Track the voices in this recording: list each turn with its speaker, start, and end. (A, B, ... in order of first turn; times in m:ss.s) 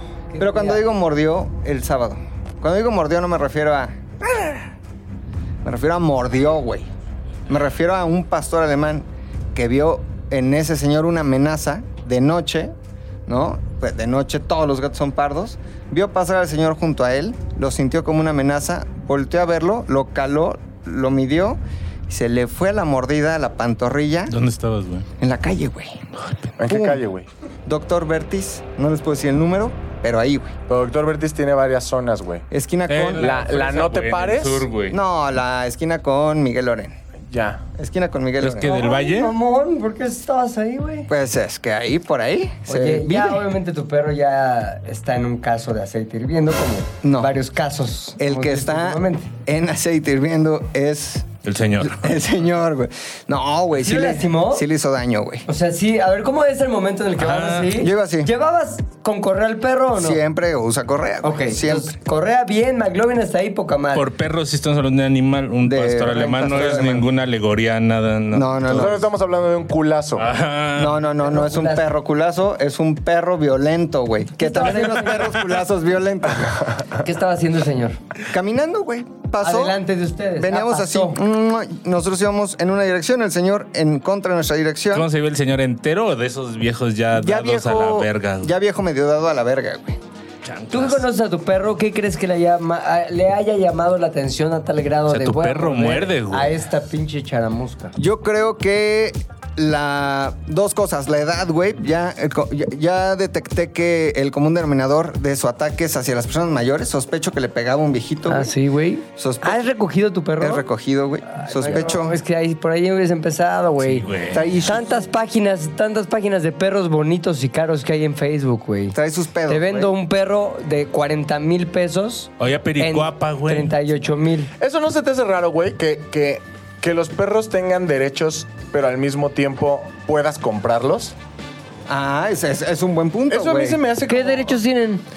0:00.3-0:00.9 A
0:00.4-0:04.7 B
0:05.6-0:06.9 B
0:07.5-0:12.7 B
0:13.3-0:24.4 B
0:24.3-0:25.1 C
0:25.2-0:26.0 B
0:26.2-0:26.5 C
0:26.6-0:27.3 D
0:26.6-0:27.0 B
0:27.6-0:30.5 B
0:30.7-0:32.4 D
0:32.5-0:33.3 B
0:32.9-0:35.0 C
0:33.2-0:34.7 D
0:34.9-0:37.0 B
0:37.3-0:37.6 D
0:37.7-0:38.7 B
0:38.4-0:39.3 C
0:38.6-0:41.1 A
0:41.1-0:43.4 B
0:42.7-0:49.3 A
0:47.0-0:47.3 B
0:48.2-0:51.3 B
0:51.4-0:52.0 C
0:51.8-0:55.4 B
0:53.8-0:54.6 A
0:55.4-1:00.2 A
0:57.2-0:57.7 C
0:57.8-0:58.3 B
0:59.9-1:02.0 B
1:01.2-1:04.1 A
1:03.9-1:09.0 C
1:05.6-1:07.1 B
1:08.3-1:09.0 B
1:08.7-1:10.2 D
1:10.2-1:11.0 C
1:10.8-1:16.7 B
1:11.2-1:11.8 A
1:14.4-1:15.4 A
1:17.0-1:18.0 A
1:18.3-1:19.8 B
1:19.4-1:21.2 A
1:20.4-1:25.1 B
1:24.9-1:28.5 C
1:27.1-1:30.0 B
1:30.4-1:31.0 C
1:30.7-1:37.9 A
1:35.1-1:36.6 C
1:38.0-1:48.5 B
1:48.3-1:50.6 A
1:49.2-1:49.6 B
1:50.4-1:52.2 B
1:51.3-1:54.0 A
1:53.8-1:54.5 C
1:54.3-1:54.9 B
1:54.6-1:59.0 A
1:58.9-1:59.9 B
1:59.5-2:04.5 A
2:02.4-2:03.8 C
2:04.6-2:11.1 D
2:11.9-2:13.8 B
2:13.3-2:14.6 D
2:14.1-2:15.0 A